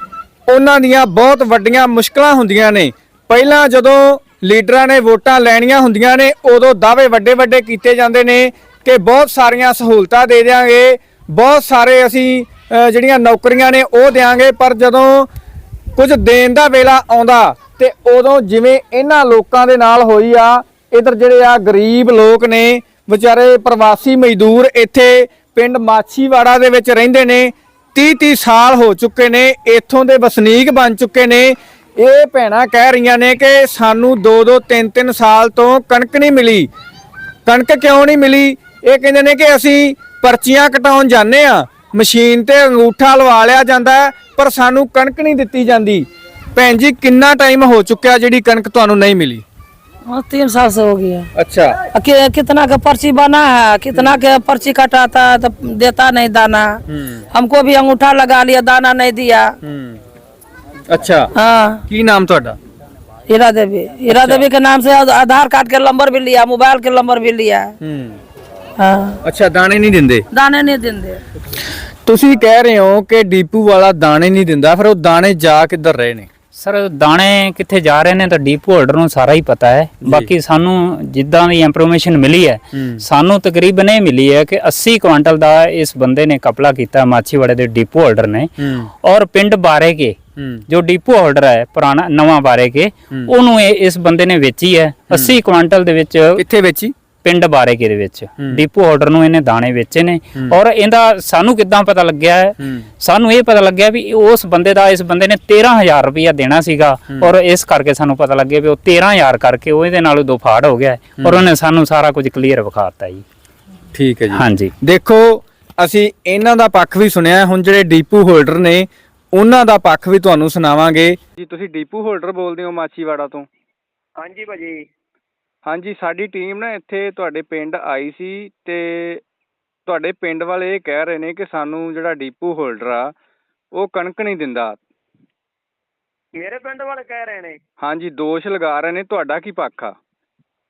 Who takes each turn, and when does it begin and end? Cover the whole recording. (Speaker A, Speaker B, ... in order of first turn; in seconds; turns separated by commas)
Speaker A: 0.5-15.3, Speaker A: 15.9-36.7, Speaker A: 37.5-49.4, Speaker B: 50.1-51.3, Speaker A: 51.3-51.8, Speaker B: 51.9-56.8, Speaker A: 53.9-54.2, Speaker A: 56.9-57.2, Speaker B: 57.3-59.5, Speaker A: 59.6-60.0, Speaker A: 60.9-61.3, Speaker B: 61.3-61.8, Speaker A: 61.9-62.6, Speaker B: 63.3-67.7, Speaker A: 64.1-64.5, Speaker A: 67.8-68.2, Speaker B: 68.8-69.2, Speaker A: 69.2-70.2, Speaker B: 70.3-71.2, Speaker A: 72.0-76.3, Speaker C: 76.5-88.5, Speaker A: 80.0-80.3, Speaker A: 82.7-83.0, Speaker A: 88.6-88.9, Speaker C: 89.0-90.2, Speaker A: 90.4-90.6, Speaker C: 90.7-96.4, Speaker A: 95.1-95.3, Speaker A: 96.3-96.9, Speaker C: 97.2-113.2, Speaker A: 102.6-102.8, Speaker A: 111.2-111.5, Speaker A: 113.9-121.2, Speaker C: 114.3-114.7, Speaker D: 121.4-123.5, Speaker E: 124.2-124.8, Speaker D: 125.7-129.2, Speaker D: 129.9-133.1, Speaker D: 133.7-134.8, Speaker E: 136.3-137.6, Speaker D: 137.8-139.9